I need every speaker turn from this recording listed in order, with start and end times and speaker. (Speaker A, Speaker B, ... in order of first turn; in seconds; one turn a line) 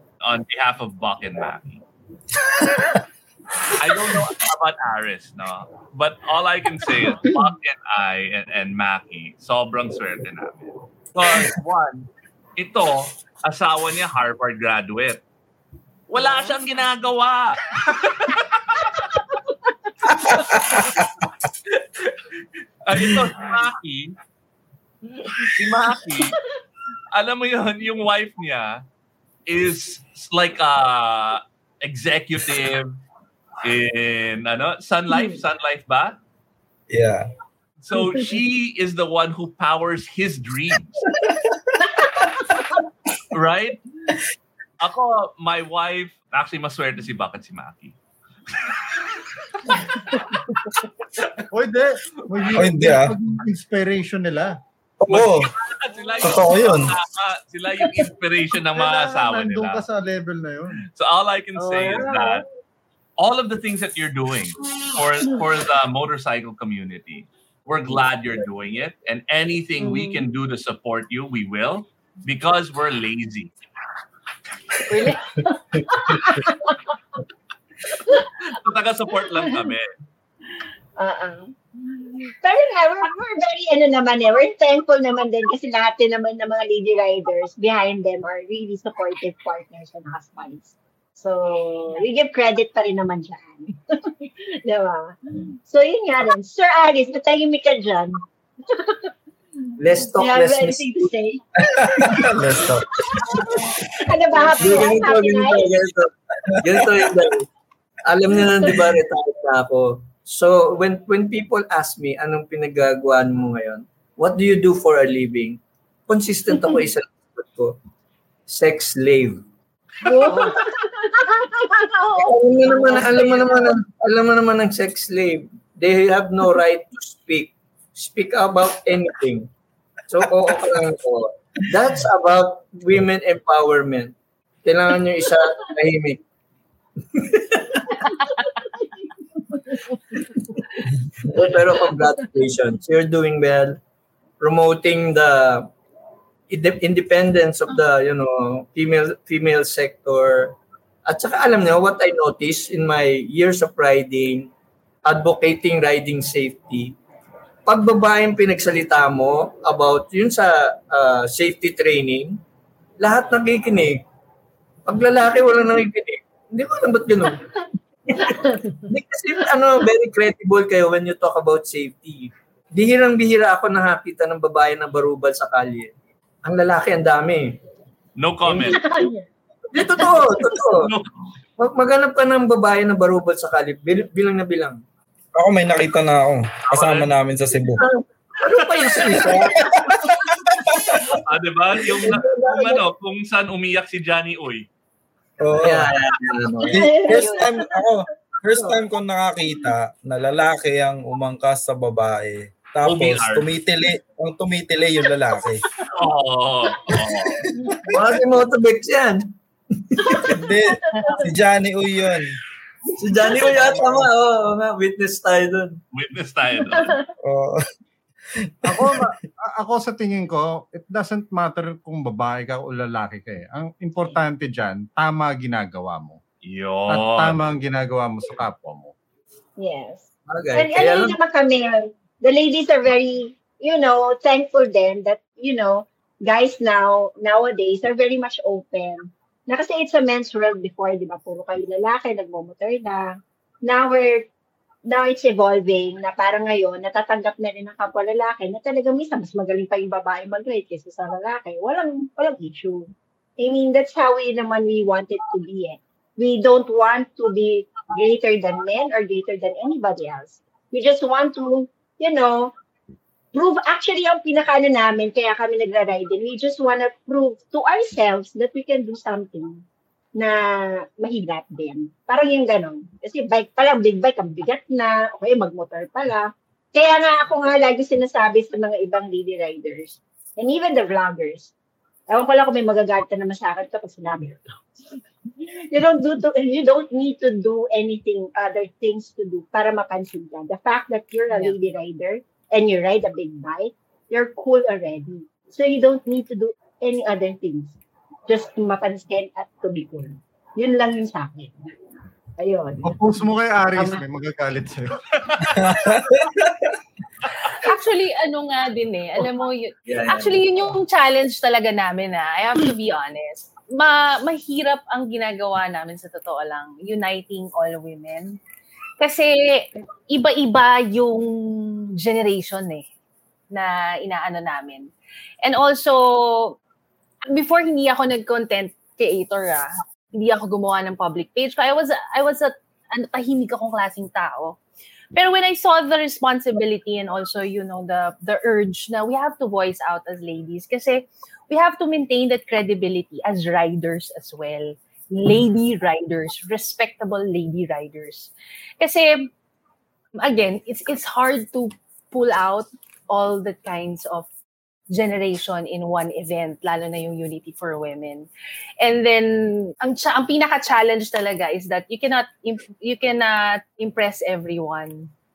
Speaker A: 0.2-1.8
Speaker A: 3.8-15.2
Speaker A: 16.1-18.4
Speaker B: 16.2-16.6
Speaker A: 21.8-22.2
Speaker A: 22.9-24.1
Speaker A: 25.6-26.4
Speaker B: 26.1-26.4
Speaker A: 27.1-28.8
Speaker A: 29.5-33.0
Speaker A: 33.6-36.2
Speaker B: 35.1-35.4
Speaker C: 36.9-37.3
Speaker A: 37.8-41.0
Speaker A: 43.3-43.8
Speaker A: 44.8-48.0
Speaker A: 48.6-49.1
Speaker A: 49.8-50.2
Speaker D: 51.5-54.5
Speaker C: 52.5-53.1
Speaker C: 55.0-55.5
Speaker A: 55.1-59.8
Speaker C: 56.2-56.9
Speaker D: 58.8-60.8
Speaker A: 60.9-62.5
Speaker B: 61.6-62.4
Speaker A: 63.2-73.5
Speaker B: 69.8-70.2
Speaker E: 74.9-75.4
Speaker B: 75.7-76.9
Speaker A: 78.1-79.9
Speaker B: 79.2-79.7
Speaker B: 81.0-99.1
Speaker F: 99.8-100.9
Speaker B: 99.9-105.7
Speaker C: 101.6-102.9
Speaker F: 104.5-107.5
Speaker F: 108.0-117.8
Speaker B: 116.5-116.9
Speaker F: 118.5-119.4
Speaker B: 120.0-123.7
Speaker F: 120.3-120.6
Speaker F: 122.2-129.5
Speaker F: 130.1-136.2
Speaker F: 137.1-138.1
Speaker F: 140.2-143.8
Speaker F: 144.4-145.7
Speaker F: 146.5-154.5
Speaker F: 155.1-156.9
Speaker F: 157.7-162.4
Speaker F: 163.0-164.0
Speaker F: 164.9-167.4
Speaker F: 168.1-168.3
Speaker B: 168.2-168.8
Speaker F: 168.9-175.9
Speaker F: 176.4-177.6
Speaker A: 178.2-178.9
Speaker F: 178.5-178.8
Speaker B: 178.6-179.2
Speaker F: 179.7-180.9
Speaker B: 179.8-180.4
Speaker A: 180.7-181.1
Speaker F: 181.6-184.8
Speaker C: 185.3-187.8
Speaker A: 186.7-187.1
Speaker F: 187.7-189.7
Speaker A: 188.8-189.3
Speaker C: 190.5-191.2
Speaker A: 191.2-194.7
Speaker B: 192.1-192.8
Speaker C: 195.4-195.9
Speaker F: 195.6-196.9
Speaker C: 196.6-205.7
Speaker B: 196.7-197.8
Speaker A: 202.8-203.5
Speaker A: 205.9-207.4
Speaker B: 207.6-207.9
Speaker F: 207.9-209.2
Speaker F: 209.8-210.4
Speaker B: 210.0-210.3
Speaker C: 210.3-212.4
Speaker B: 210.9-211.2
Speaker F: 212.9-215.8
Speaker C: 213.4-214.1
Speaker A: 215.9-217.0
Speaker B: 216.6-217.1
Speaker C: 217.2-217.6
Speaker C: 218.4-219.1
Speaker D: 218.7-226.2
Speaker A: 226.4-227.4
Speaker D: 226.9-228.9
Speaker B: 229.6-243.1
Speaker F: 230.3-231.2
Speaker B: 243.7-244.3
Speaker B: 244.9-262.5
Speaker B: 263.3-269.6
Speaker B: 270.2-281.5
Speaker B: 282.1-297.8
Speaker E: 291.3-291.6
Speaker B: 298.3-301.5
Speaker B: 302.4-303.0
Speaker D: 302.8-304.9
Speaker B: 303.8-304.0
Speaker A: 305.2-305.6
Speaker C: 305.6-306.5
Speaker E: 307.6-318.4
Speaker F: 309.9-310.7
Speaker E: 319.0-322.9
Speaker E: 323.5-324.9
Speaker E: 325.4-326.6
Speaker E: 327.3-334.6
Speaker E: 335.1-349.3
Speaker E: 350.2-354.3
Speaker E: 354.9-358.3
Speaker E: 358.8-365.1